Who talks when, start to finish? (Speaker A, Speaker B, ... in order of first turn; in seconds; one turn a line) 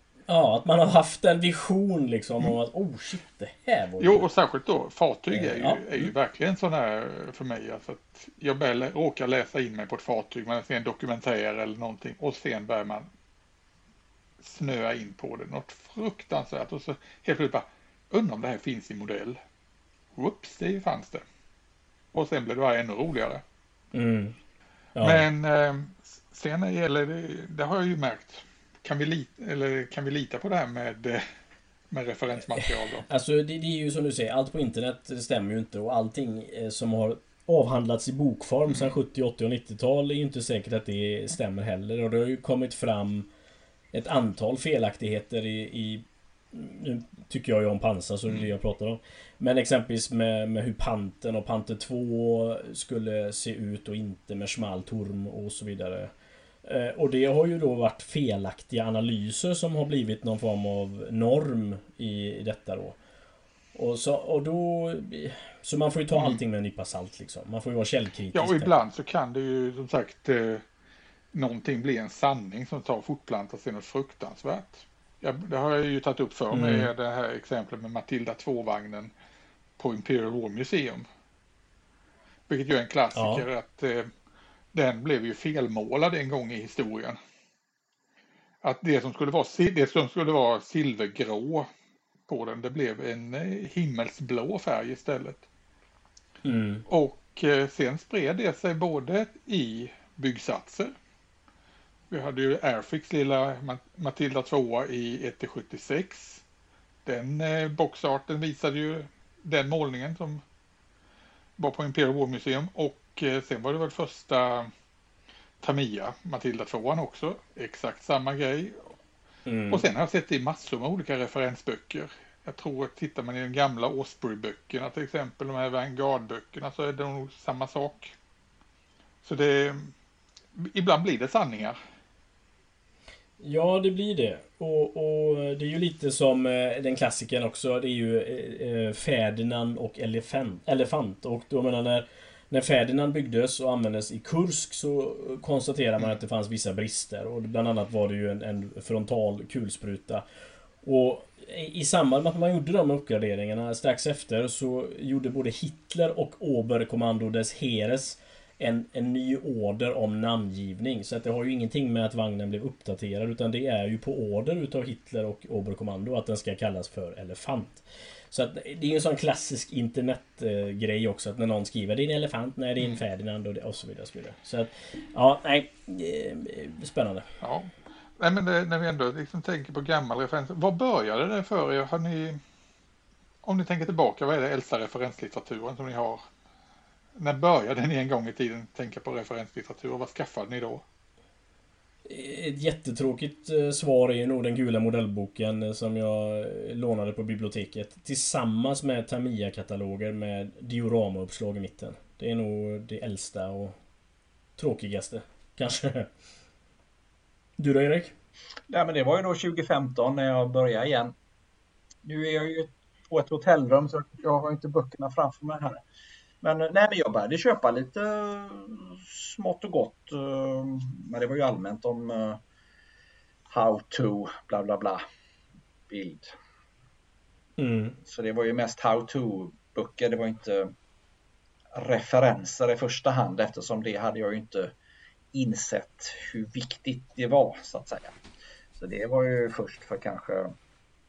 Speaker A: 0.3-4.3
Speaker B: 4.0-13.1
Speaker A: 5.3-6.1
Speaker B: 14.4-19.4
Speaker B: 20.2-21.2
Speaker B: 22.1-23.4
Speaker A: 23.9-24.4
Speaker A: 25.0-25.3
Speaker B: 25.0-31.2
Speaker B: 31.9-33.1
Speaker A: 32.6-43.3
Speaker B: 38.7-38.9
Speaker A: 43.9-56.1
Speaker A: 56.6-63.0
Speaker A: 63.7-68.7
Speaker B: 66.1-66.4
Speaker B: 68.3-70.6
Speaker B: 71.3-79.1
Speaker A: 76.5-76.9
Speaker B: 79.8-81.1
Speaker B: 82.5-84.1
Speaker A: 83.1-83.5
Speaker B: 84.7-87.2
Speaker B: 88.6-91.7
Speaker B: 92.3-95.5
Speaker A: 96.4-96.8
Speaker B: 96.9-100.9
Speaker B: 102.1-106.4
Speaker B: 107.1-110.4
Speaker B: 111.6-114.7
Speaker B: 115.6-118.9
Speaker A: 119.5-119.9
Speaker B: 119.7-128.1
Speaker B: 129.2-129.9
Speaker B: 130.6-131.8
Speaker A: 133.4-150.2
Speaker A: 150.8-177.3
Speaker B: 177.4-182.4
Speaker B: 183.4-186.2
Speaker B: 187.2-190.8
Speaker A: 192.1-203.8
Speaker A: 204.6-206.1
Speaker A: 207.6-208.1
Speaker C: 208.7-211.2
Speaker C: 212.1-215.8
Speaker C: 216.4-222.4
Speaker C: 223.5-225.0
Speaker C: 225.9-226.3
Speaker A: 227.6-228.0
Speaker C: 228.0-230.7
Speaker C: 231.8-234.7
Speaker C: 235.3-238.2
Speaker C: 238.8-240.6